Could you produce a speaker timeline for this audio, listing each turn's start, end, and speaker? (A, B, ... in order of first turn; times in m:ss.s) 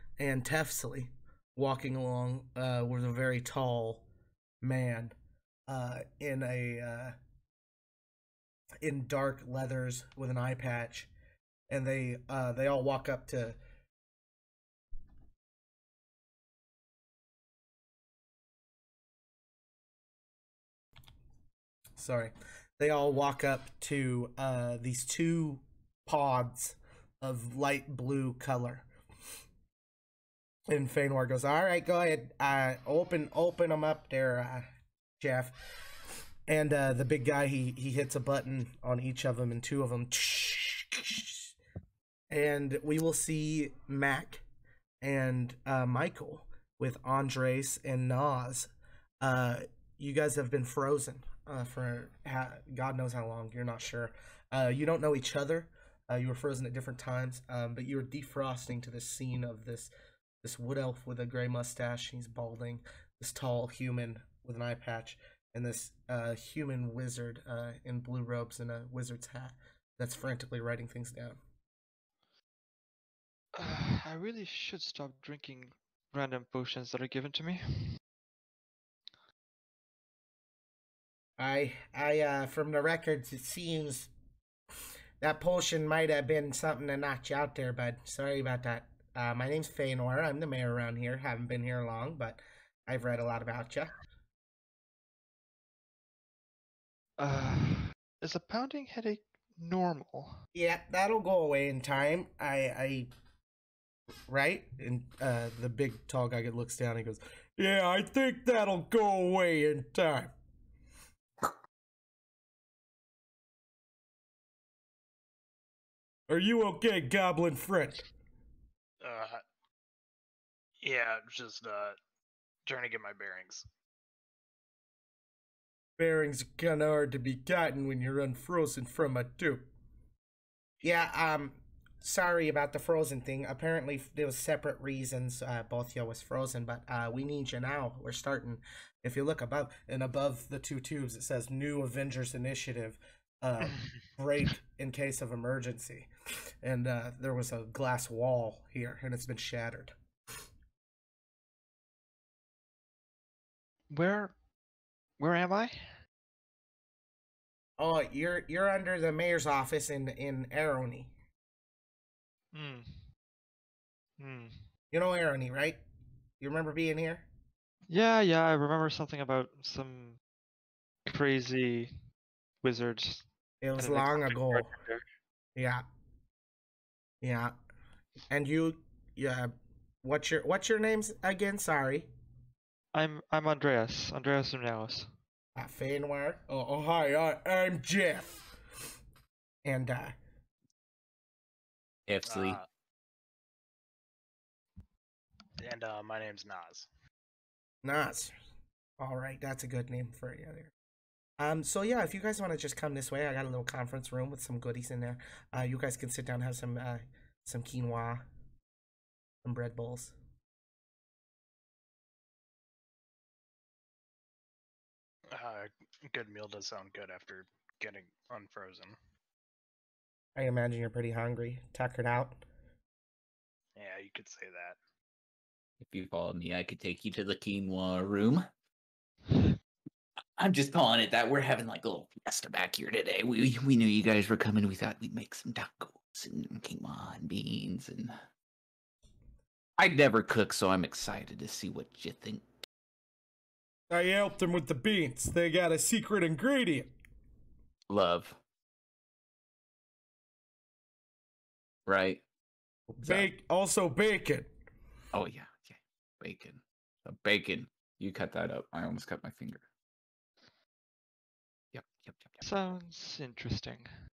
0:00.2-0:04.1 A
0:04.6-0:05.2 A
0:05.7-0:07.2 A
0:08.8-0:11.1 A
0:11.7-0:13.6 A
0:22.0-0:28.9 A
0:30.7-0:34.7 A
0:35.2-0:36.0 A
0:36.5-0:41.5 A
0:42.3-0:44.4 A
0:45.0-0:59.9 A
1:00.4-1:11.4 A
1:13.6-1:18.0 B
1:21.4-1:24.1 A
1:25.2-1:33.9 A
1:37.2-1:40.4 B
1:40.6-1:43.1 A
1:44.3-1:50.3 A
1:56.3-1:58.1 A
1:59.0-1:59.4 C
2:00.8-2:02.0 C
2:02.7-2:03.6 C
2:06.0-2:09.7 A
2:10.8-2:26.1 A
2:23.6-2:23.9 B
2:26.6-2:29.9 A
2:33.9-2:34.4 B
2:35.2-2:35.9 B
2:37.8-2:41.1 A
2:42.5-2:42.9 B
2:44.2-2:44.6 B
2:44.9-2:45.8 A
2:46.4-2:47.3 A
2:47.9-2:50.2 B
2:51.1-2:52.0 B
2:52.6-2:53.3 B
2:53.6-2:54.7 A
2:53.8-2:55.0 B
2:55.6-2:55.8 A
2:57.2-2:57.6 A
2:58.3-3:02.1 A
3:02.9-3:05.1 B
3:05.6-3:08.5 A
3:09.6-3:10.2 A
3:12.1-3:12.6 D
3:12.3-3:12.7 C
3:15.6-3:16.9 C
3:17.8-3:18.4 A
3:19.0-3:20.7 A
3:21.4-3:28.2 A
3:29.4-3:30.2 A
3:35.3-3:39.0 C
3:40.4-3:42.4 A
3:43.8-3:44.8 C
3:45.8-3:48.4 D
3:50.4-3:58.1 D
3:59.8-4:02.4 D
4:03.9-4:06.9 A
4:07.9-4:08.4 D
4:11.9-4:12.2 D
4:12.9-4:14.5 A
4:15.1-4:19.6 D
4:21.7-4:22.4 D
4:22.4-4:23.9 B